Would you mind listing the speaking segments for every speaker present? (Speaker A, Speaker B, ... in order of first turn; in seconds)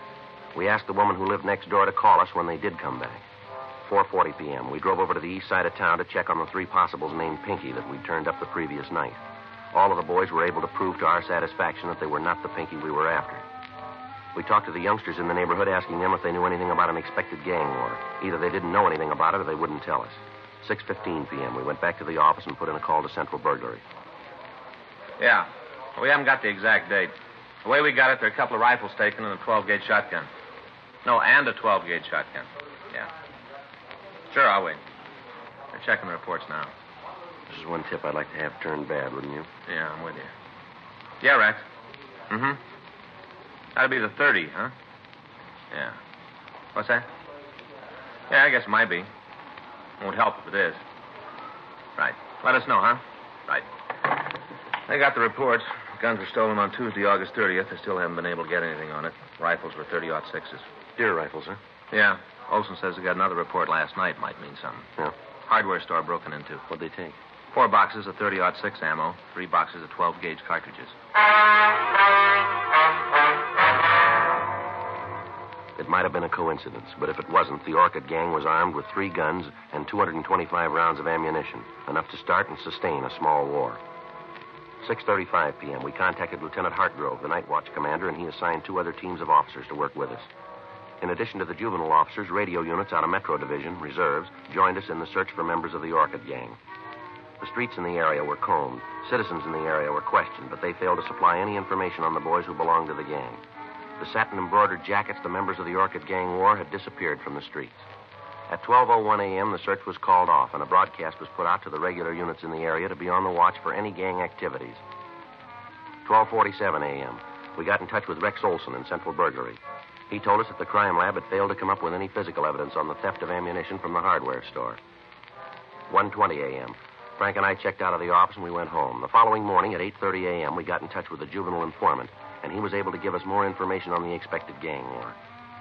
Speaker A: 0.5-3.2, 3.8-9.2, 9.7-13.5, 14.3-23.8, 37.5-39.5, 61.0-61.6, 66.7-67.2, 75.8-83.8, 84.8-90.3, 91.0-96.6, 97.4-103.4, 104.0-107.9, 108.5-114.8, 116.0-124.8, 125.9-135.2
Speaker B: 25.2-27.1, 27.6-30.3, 31.1-33.1, 34.3-34.8, 35.7-36.7, 39.7-40.3, 41.2-41.7, 42.3-42.6, 43.8-44.7, 45.7-46.0, 46.8-47.1, 48.3-49.1, 50.0-50.8, 52.0-53.7, 54.9-60.7, 61.9-64.9, 65.5-66.6, 67.5-71.0